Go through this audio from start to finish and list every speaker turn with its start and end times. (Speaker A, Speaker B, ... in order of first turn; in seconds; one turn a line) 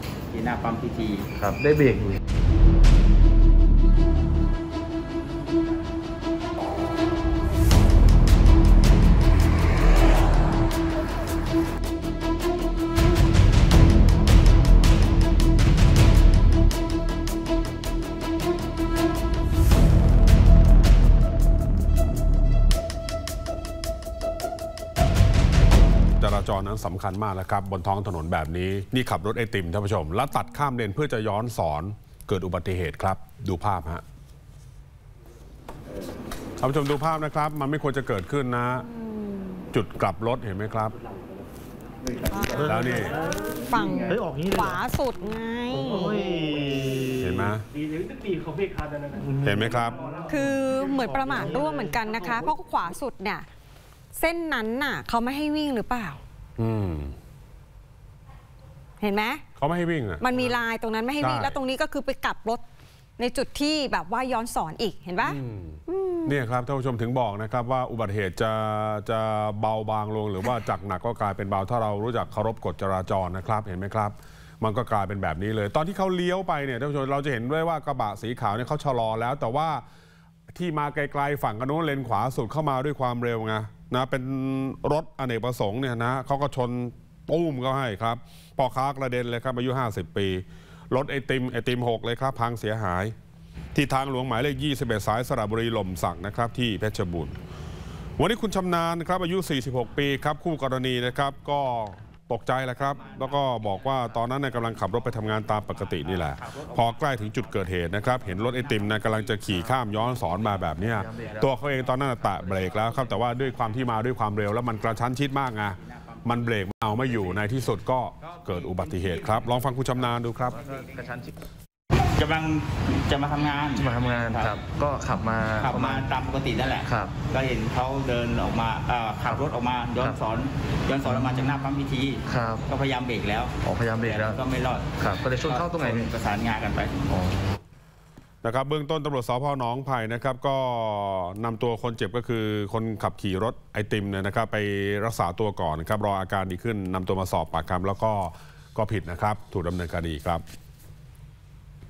Speaker A: 0.3-1.3
Speaker B: 1.4-2.2
Speaker C: 26.2-34.0
Speaker C: 36.6-38.9
Speaker D: 38.8-39.6
Speaker C: 39.7-40.9
Speaker D: 42.3-46.4
Speaker C: 42.6-43.2
Speaker E: 44.1-44.7
Speaker E: 46.0-47.2
Speaker C: 47.2-47.7
Speaker E: 49.2-49.6
Speaker C: 49.4-50.0
Speaker D: 50.2-53.5
Speaker D: 54.1-56.2
Speaker C: 56.6-57.1
Speaker D: 59.0-59.4
Speaker C: 59.6-60.6
Speaker D: 60.2-62.6
Speaker C: 61.2-61.6
Speaker D: 63.2-66.3
Speaker C: 65.2-79.8
Speaker C: 80.5-93.1
Speaker C: 93.7-97.4
Speaker C: 98.2-120.6
Speaker A: 102.8-113.8
Speaker B: 110.8-111.5
Speaker A: 115.7-117.7
Speaker A: 118.3-121.1
Speaker B: 120.8-121.3
Speaker A: 122.2-124.6
Speaker B: 123.8-126.1
Speaker A: 125.6-136.9
Speaker B: 126.8-127.2
Speaker B: 132.3-132.6
Speaker B: 133.6-134.4
Speaker B: 135.0-136.1
Speaker B: 137.1-137.6
Speaker C: 138.4-150.4